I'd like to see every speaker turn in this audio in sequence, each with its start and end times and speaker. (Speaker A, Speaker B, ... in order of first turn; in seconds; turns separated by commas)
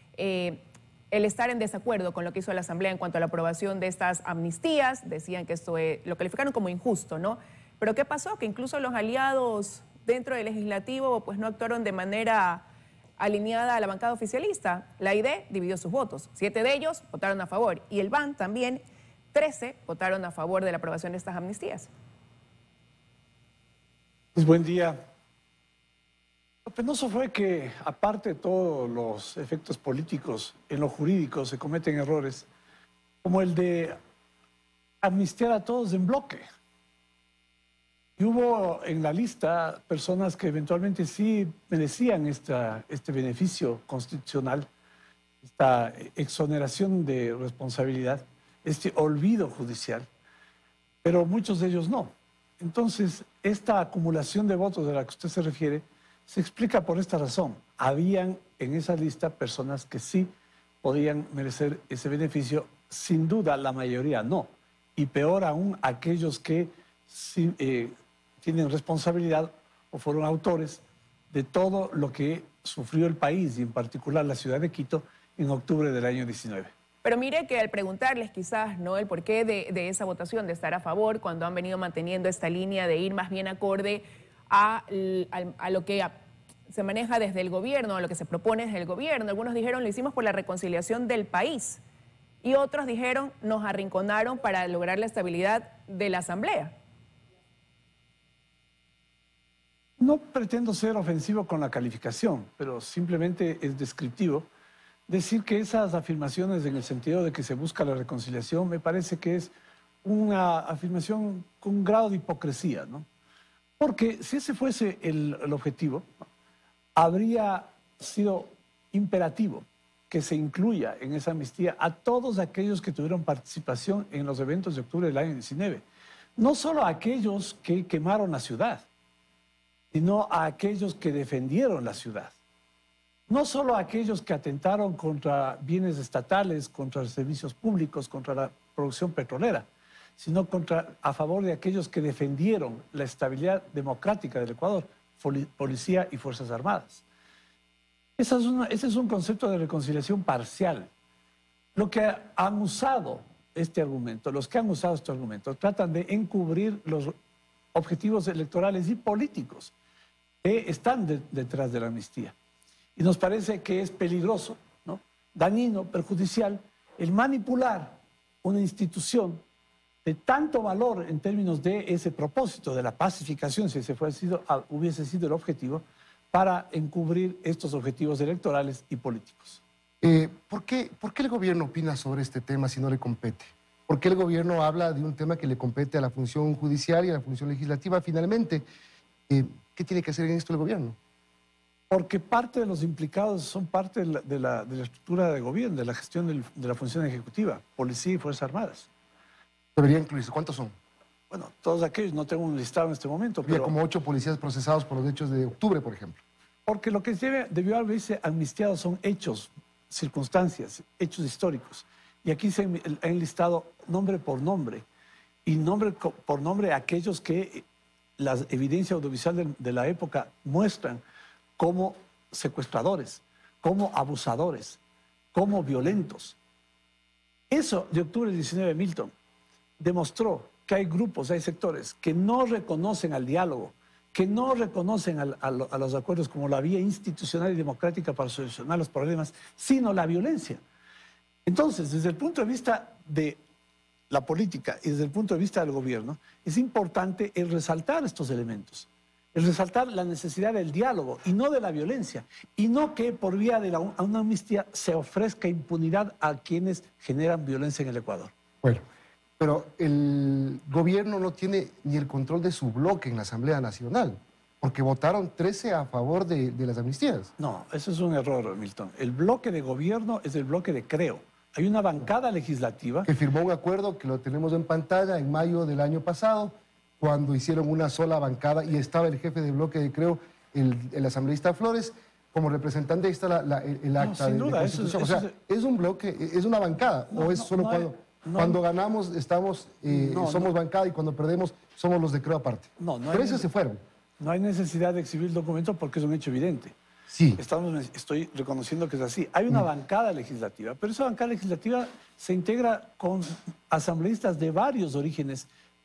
Speaker A: 0.1-12.6, Speaker A: 13.2-18.8, Speaker A: 19.3-21.9, Speaker B: 24.3-25.0, Speaker B: 26.6-32.5, Speaker B: 33.2-34.0, Speaker B: 35.0-36.4, Speaker B: 38.2-44.7, Speaker B: 45.4-50.1, Speaker B: 51.0-60.3, Speaker B: 60.8-76.7, Speaker A: 77.0-86.1, Speaker A: 86.7-91.8, Speaker A: 92.4-96.7, Speaker B: 100.0-104.5, Speaker B: 105.1-109.5, Speaker B: 110.0-113.0, Speaker B: 113.8-116.2, Speaker B: 117.0-125.8, Speaker B: 126.4-128.8, Speaker B: 129.9-132.3, Speaker B: 133.3-139.7, Speaker B: 140.2-147.0, Speaker B: 148.2-150.9, Speaker B: 151.8-157.1, Speaker B: 157.7-159.7, Speaker B: 160.4-162.3, Speaker B: 162.9-169.4, Speaker B: 170.0-179.6, Speaker C: 180.0-188.6, Speaker C: 189.3-191.0, Speaker B: 191.9-198.9, Speaker C: 199.8-200.7, Speaker B: 201.3-203.7, Speaker C: 203.4-206.2, Speaker B: 206.7-214.8, Speaker B: 215.4-217.6, Speaker B: 218.2-221.0, Speaker B: 221.6-224.8, Speaker B: 225.3-226.4, Speaker B: 227.5-229.1, Speaker B: 229.8-240.6, Speaker B: 241.4-243.4, Speaker B: 244.1-258.3, Speaker C: 259.4-267.3, Speaker B: 267.4-273.1, Speaker C: 273.1-293.8, Speaker B: 284.0-285.3, Speaker B: 287.1-288.6, Speaker B: 289.9-290.5, Speaker B: 292.8-293.5, Speaker B: 294.2-296.7, Speaker C: 297.1-297.4, Speaker B: 297.4-305.5